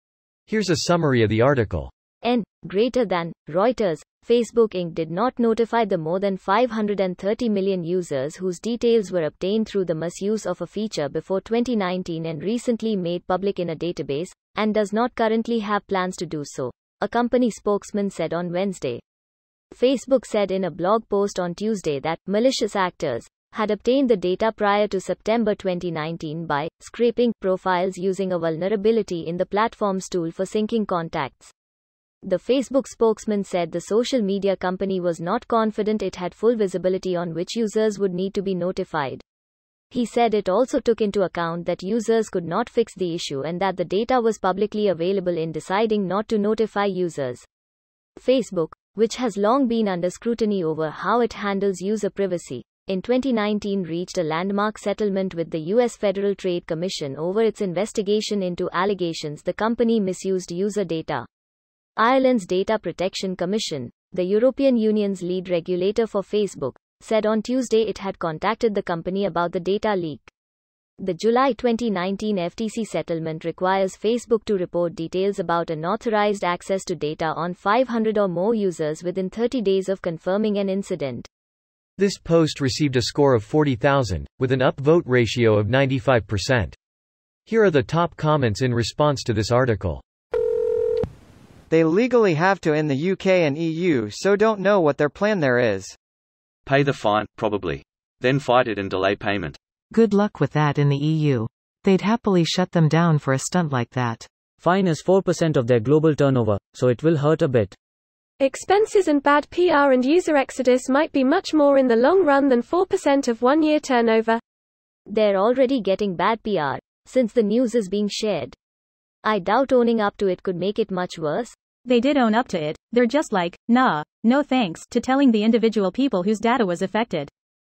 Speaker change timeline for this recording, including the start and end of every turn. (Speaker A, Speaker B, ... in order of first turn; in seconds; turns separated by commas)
Speaker A: 0.5-1.9, Speaker B: 2.2-19.0, Speaker B: 19.7-31.5, Speaker B: 32.2-39.2, Speaker B: 39.9-47.4, Speaker B: 48.1-61.2, Speaker B: 62.0-70.3, Speaker B: 71.0-81.3, Speaker A: 82.0-86.7, Speaker A: 87.5-90.0, Speaker C: 91.7-96.0, Speaker D: 96.7-99.6, Speaker E: 99.9-104.3, Speaker F: 104.6-107.7, Speaker G: 108.4-114.4, Speaker B: 115.1-118.5, Speaker B: 119.2-121.5, Speaker H: 121.8-127.3